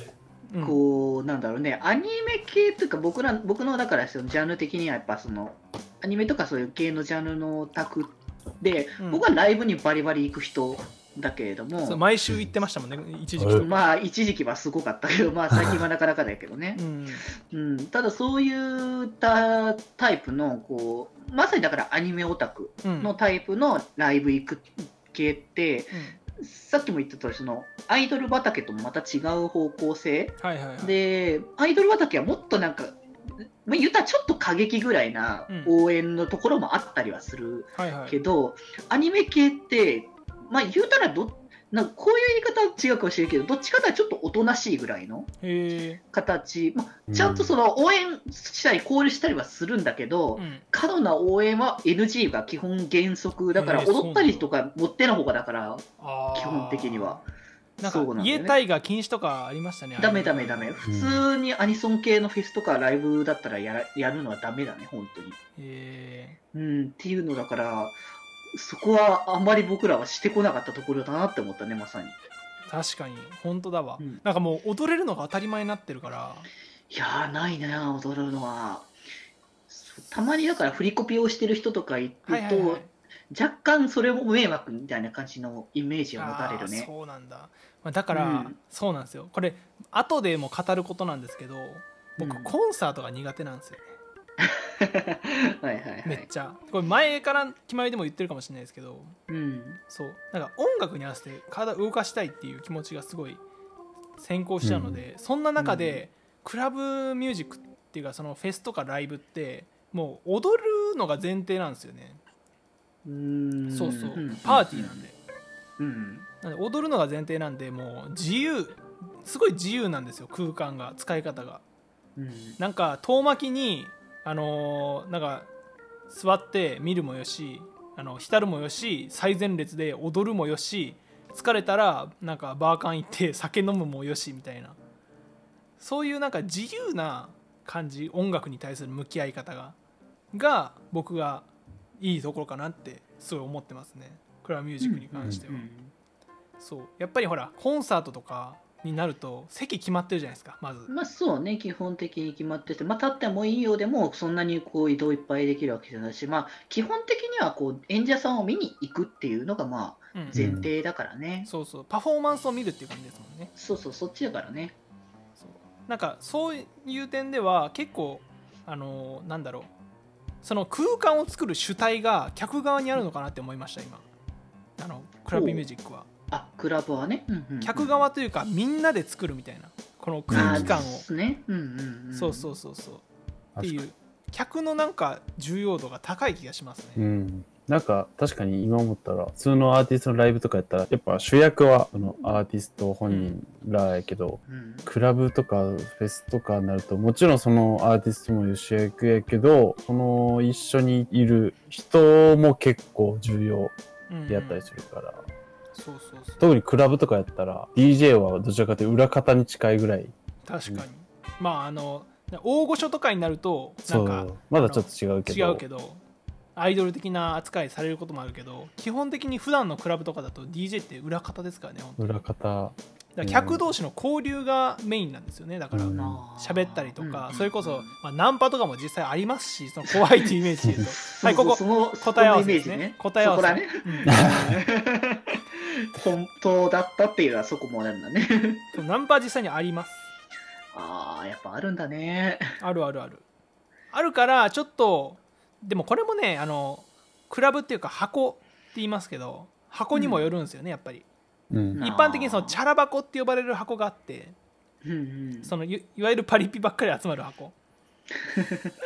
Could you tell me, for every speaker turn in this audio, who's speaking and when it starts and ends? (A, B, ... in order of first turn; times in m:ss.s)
0:00.5-0:00.8 A
0:00.6-0:12.0 B
0:09.0-0:09.2 A
0:11.8-0:13.8 A
0:13.6-0:45.3 B
0:16.8-0:17.3 A
0:22.8-0:23.1 A
0:25.9-0:26.2 A
0:30.4-0:31.0 A
0:35.5-0:35.7 A
0:37.8-0:38.2 A
0:45.4-0:46.0 A
0:46.1-0:57.3 B
0:47.1-0:47.5 C
0:50.4-0:50.6 A
0:53.6-0:54.5 A
0:56.0-0:57.2 A
0:57.8-1:00.8 A
0:57.8-0:58.6 B
1:00.0-1:05.4 B
1:00.9-1:01.2 C
1:05.6-1:06.4 A
1:06.5-1:08.0 B
1:08.5-1:12.2 B
1:12.7-1:16.5 A
1:16.9-1:18.9 B
1:19.7-1:26.9 B
1:22.3-1:22.9 A
1:26.2-1:33.8 A
1:28.1-1:28.6 B
1:32.2-1:32.5 B
1:34.4-1:36.3 B
1:36.0-1:39.2 A
1:39.3-1:39.8 B
1:39.9-1:43.4 A
1:44.2-1:52.2 A
1:44.6-1:45.0 C
1:45.6-1:46.0 B
1:53.0-1:55.1 B
1:53.7-1:55.1 A
1:55.8-1:56.3 B
1:56.4-2:01.6 A
2:02.2-2:02.6 B
2:02.6-2:05.5 A
2:06.1-2:14.8 A
2:15.8-2:19.8 A
2:20.3-2:21.5 A
2:22.0-2:25.7 A
2:24.8-2:25.9 B
2:26.6-2:30.9 A
2:30.9-2:41.5 B
2:40.3-2:40.7 C
2:41.4-2:43.5 A
2:43.6-2:44.7 B
2:45.4-2:49.7 A
2:50.4-2:54.0 A
2:54.8-2:56.1 A
2:55.3-2:55.6 B
2:56.3-2:58.0 B
2:57.6-3:01.0 A
3:00.3-3:00.8 C
3:00.3-3:02.5 B
3:02.1-3:03.0 A
3:03.6-3:03.8 C
3:03.6-3:07.0 A
3:07.0-3:23.7 C
3:13.1-3:13.4 A
3:14.5-3:14.9 B
3:24.1-3:24.7 A
3:24.3-3:25.2 C
3:25.7-3:26.4 A
3:26.4-3:30.1 C
3:30.4-3:36.0 A
3:33.9-3:35.6 C
3:36.6-3:42.2 A
3:42.0-3:43.6 C
3:43.2-3:54.2 A
3:45.7-3:46.2 C
3:45.9-3:47.9 B
3:50.6-3:58.7 B
3:54.1-3:54.6 C
3:58.7-4:00.0 A
4:00.7-4:02.5 B
4:02.6-4:03.2 A
4:03.9-4:11.0 A
4:09.9-4:10.3 B
4:11.5-4:11.8 C
4:11.7-4:12.6 B
4:11.8-4:14.4 A
4:14.8-4:15.5 B
4:15.4-4:17.5 A
4:18.3-4:18.7 B